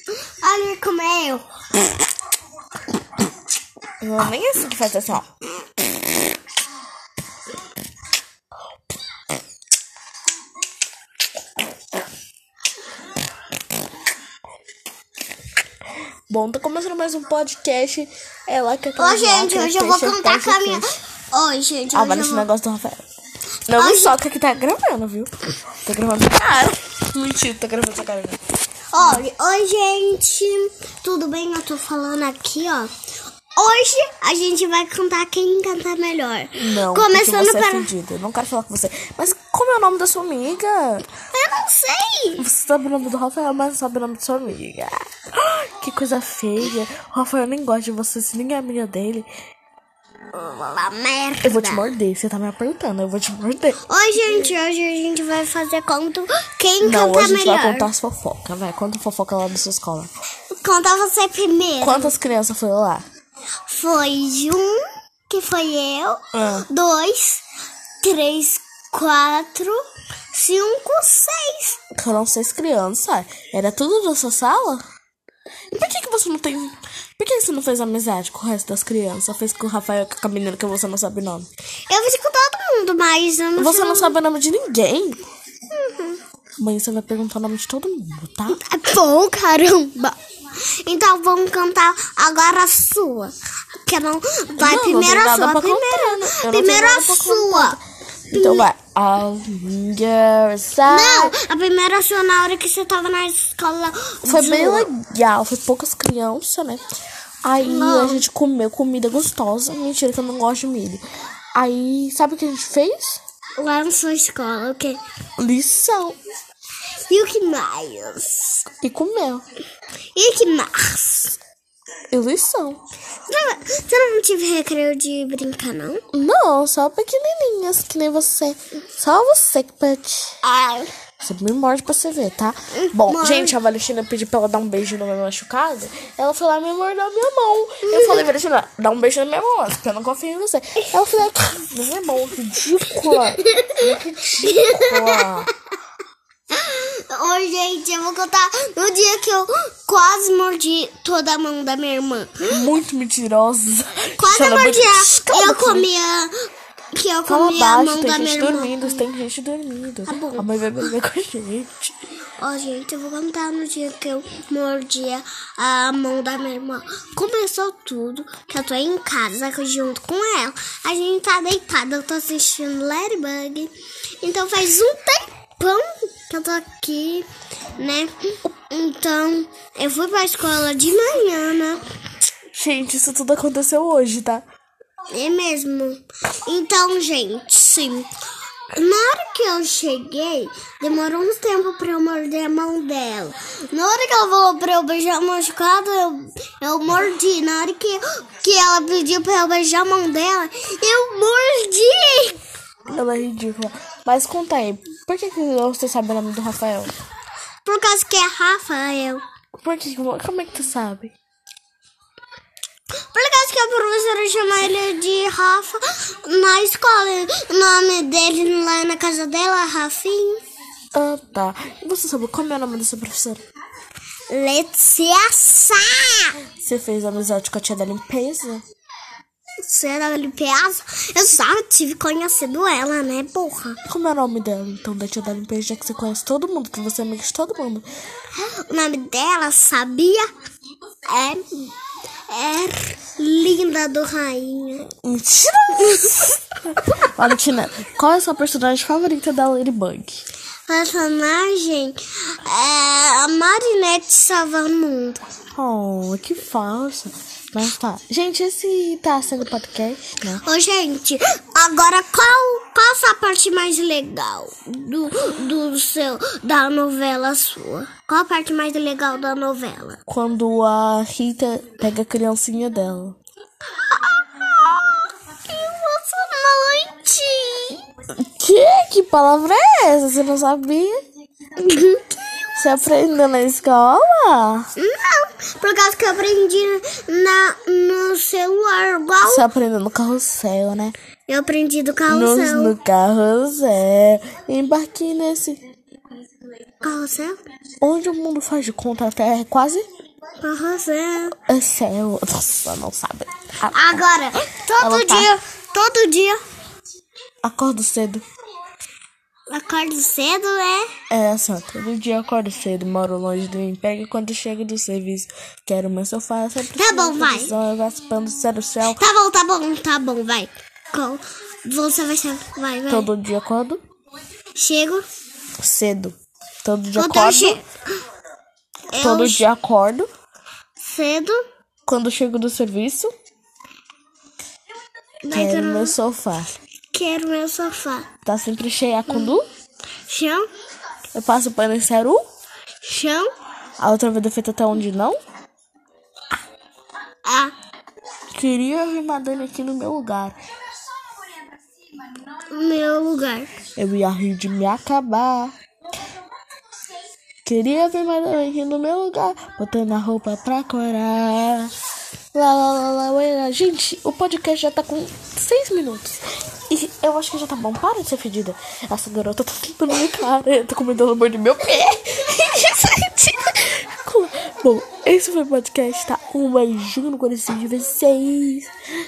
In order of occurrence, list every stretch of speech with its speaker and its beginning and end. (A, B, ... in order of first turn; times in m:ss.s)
0:00.2-0:01.4 A
0:04.0-0:05.2 B
0:16.3-0:20.8 B
0:19.0-0:22.5 A
0:21.9-0:23.0 B
0:23.7-0:25.3 B
0:23.8-0:24.2 A
0:25.8-0:28.4 B
0:28.9-0:32.9 A
0:29.0-0:29.2 B
0:33.6-0:37.9 A
0:36.6-0:41.1 B
0:41.3-0:42.4 A
0:42.4-0:49.3 B
0:50.3-0:51.9 A
0:51.4-0:53.8 B
0:53.8-0:57.9 A
0:56.8-1:00.1 B
1:00.5-1:02.1 A
1:01.8-1:03.0 B
1:03.6-1:07.4 A
1:06.3-1:06.6 B
1:08.0-1:11.8 A
1:11.9-1:14.8 B
1:15.7-1:21.5 B
1:21.9-1:24.2 A
1:23.6-1:25.2 B
1:25.7-1:26.2 A
1:26.6-1:28.6 B
1:28.5-1:37.8 A
1:34.6-1:41.4 B
1:38.3-1:38.7 A
1:40.8-1:44.9 A
1:44.2-1:46.8 B
1:47.4-1:51.0 B
1:47.6-1:48.2 A
1:51.5-1:53.2 B
1:53.6-1:55.0 A
1:55.4-1:56.2 B
1:57.1-1:58.7 A
1:58.8-1:59.4 B
2:00.1-2:01.4 A
2:02.1-2:02.8 B
2:03.3-2:06.0 A
2:06.1-2:10.3 B
2:10.4-2:10.9 A
2:11.2-2:25.5 B
2:12.7-2:13.6 A
2:17.8-2:18.2 A
2:23.1-2:23.9 A
2:24.4-2:25.4 A
2:26.5-2:32.6 A
2:32.4-2:35.9 B
2:34.2-2:39.0 A
2:37.3-2:41.9 B
2:40.1-2:40.5 A
2:42.4-2:57.2 A
2:57.8-3:01.8 A
3:02.5-3:04.4 B
3:05.1-3:08.1 A
3:08.7-3:22.4 A
3:22.9-3:26.9 B
3:27.6-3:29.2 A
3:29.6-3:31.2 B
3:33.1-3:40.4 A
3:40.9-3:43.4 B
3:44.3-3:46.4 A
3:46.5-3:48.6 B
3:49.6-3:53.8 A
3:53.9-3:57.8 B
3:58.3-4:00.3 A
4:01.1-4:01.7 A
4:02.3-4:04.9 A
4:04.9-4:10.2 B
4:05.8-4:06.2 A
4:10.7-4:15.2 A
4:15.5-4:20.4 B
4:20.3-4:30.0 A
4:30.1-4:33.2 B
4:33.9-4:37.8 A
4:38.2-4:41.0 B
4:41.6-4:42.0 A
4:42.6-4:44.7 B
4:44.8-4:49.4 A
4:49.2-4:50.9 B
4:51.3-4:52.7 A
4:52.1-4:55.6 B
4:56.8-4:57.4 A
4:57.8-4:59.8 B
5:00.4-5:01.4 A
5:01.5-5:04.0 B
5:03.7-5:06.4 A
5:04.8-5:05.3 B
5:07.4-5:08.2 B
5:09.5-5:10.9 A
5:11.1-5:19.0 B
5:16.7-5:17.5 A
5:18.9-5:23.1 A
5:22.9-5:23.8 B
5:24.5-5:25.0 A
5:25.6-5:27.6 B
5:27.0-5:27.6 A
5:28.9-5:29.4 A
5:29.0-5:30.1 B
5:30.8-5:31.4 A
5:31.8-5:33.1 B
5:35.2-5:35.9 A
5:35.3-5:36.5 B
5:36.9-5:38.1 A
5:38.2-5:39.4 B
5:39.1-5:39.4 A
5:40.1-5:40.4 A
5:41.1-5:42.2 B
5:42.8-5:43.3 A
5:43.8-5:45.2 B
5:47.2-5:47.5 A
5:48.3-5:50.3 B
5:52.5-5:53.5 A
5:53.8-5:55.5 B
5:57.4-6:01.7 B
6:02.3-6:18.7 B